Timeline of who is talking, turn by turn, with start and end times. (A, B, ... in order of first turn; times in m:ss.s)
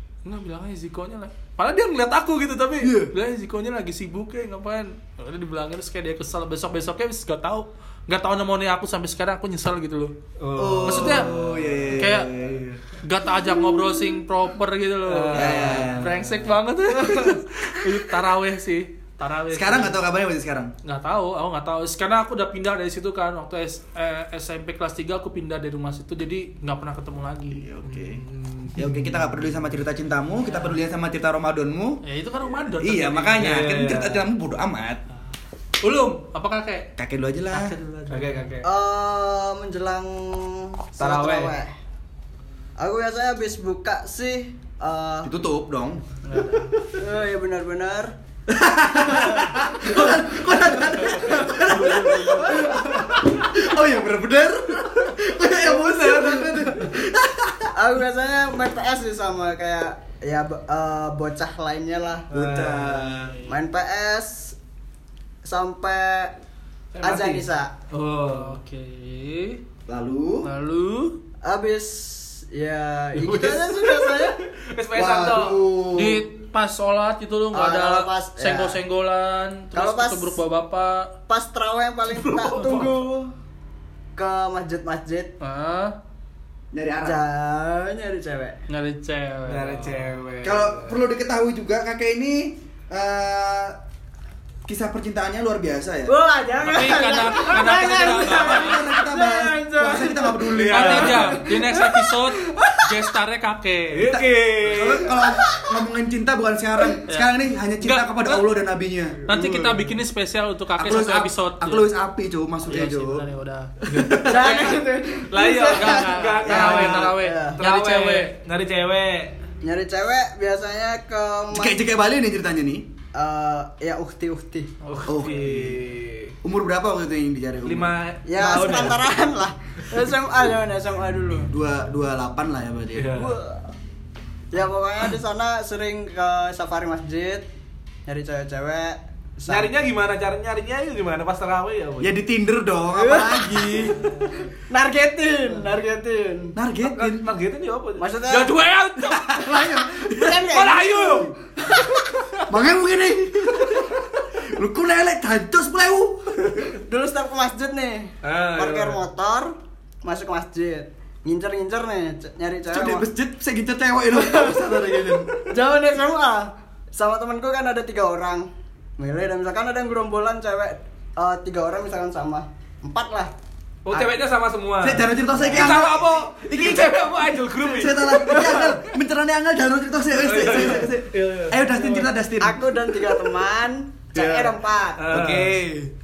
0:00.2-0:10.1 A
0:02.8-0:03.1 B
0:10.4-0:12.0 C
0:10.6-0:12.8 B
0:10.8-0:11.3 A
0:11.9-0:12.3 A
0:13.0-0:20.0 A
0:15.1-0:16.3 C
0:15.3-0:16.2 B
0:19.5-0:20.7 B
0:20.8-0:27.7 A
0:27.5-0:28.2 B
0:28.0-0:29.1 C
0:28.7-0:32.0 B
0:30.4-0:30.8 A
0:32.0-0:33.6 A
0:32.8-0:35.0 B
0:33.4-0:34.3 C
0:35.8-0:36.9 A
0:37.0-0:37.7 B
0:37.5-0:38.5 A
0:38.1-0:38.7 C
0:38.6-0:41.7 D
0:41.0-0:41.6 C
0:42.8-0:45.3 D
0:45.2-0:46.0 B
0:46.2-0:46.7 A
0:46.9-0:48.1 D
0:48.5-0:57.7 B
0:49.0-0:53.2 D
0:51.4-0:52.6 A
0:55.8-0:56.8 D
0:57.7-1:02.3 D
1:02.3-1:03.1 C
1:02.3-1:03.4 B
1:03.4-1:04.6 D
1:05.4-1:06.4 D
1:06.9-1:08.6 C
1:07.0-1:07.7 D
1:08.2-1:09.6 A
1:09.9-1:10.5 B
1:10.4-1:11.2 A
1:11.4-1:14.4 D
1:13.1-1:15.7 C
1:14.9-1:16.2 B
1:15.9-1:21.1 A
1:17.5-1:18.8 D
1:19.7-1:20.4 D
1:21.3-1:23.3 D
1:22.1-1:23.0 C
1:24.2-1:25.3 D
1:25.4-1:26.0 A
1:26.7-1:27.2 B
1:27.0-1:28.6 D
1:28.7-1:30.1 A
1:29.5-1:31.0 C
1:30.4-1:33.8 B
1:34.6-1:36.1 B
1:36.0-1:43.1 D
1:36.6-1:38.8 A
1:37.7-1:41.4 B
1:40.5-1:41.4 C
1:40.7-1:44.1 A
1:43.9-1:45.1 C
1:44.0-1:49.8 B
1:44.8-1:45.8 D
1:47.8-1:48.4 A
1:49.3-1:51.9 A
1:50.8-1:53.2 B
1:52.7-1:54.8 A
1:53.9-1:59.4 C
1:54.0-1:54.4 B
1:54.1-1:57.6 D
1:55.6-1:58.4 A
1:56.5-1:57.1 B
1:59.6-2:01.8 D
2:01.5-2:02.9 B
2:03.1-2:04.7 D
2:04.9-2:06.4 C
2:05.1-2:05.8 B
2:06.4-2:08.0 B
2:07.6-2:09.1 C
2:08.2-2:11.5 D
2:11.5-2:13.2 B
2:12.9-2:13.4 C
2:13.1-2:13.7 D
2:14.5-2:17.4 D
2:18.0-2:19.7 D
2:19.5-2:22.2 C
2:22.0-2:24.0 B
2:22.9-2:26.6 D
2:26.6-2:27.3 B
2:26.8-2:29.4 C
2:28.0-2:28.6 D
2:29.0-2:30.5 B
2:29.4-2:32.0 D
2:30.5-2:31.3 C
2:32.5-2:36.6 B
2:36.8-2:43.0 D
2:38.2-2:39.0 C
2:42.7-2:45.5 B
2:44.1-2:53.3 D
2:53.8-2:58.7 C
2:53.9-2:54.2 D
2:54.8-2:57.1 B
2:55.3-2:55.8 D
2:57.6-3:02.7 B
2:58.0-2:58.8 D
3:00.1-3:02.0 C
3:02.4-3:05.0 D
3:04.1-3:05.7 C
3:05.1-3:05.8 B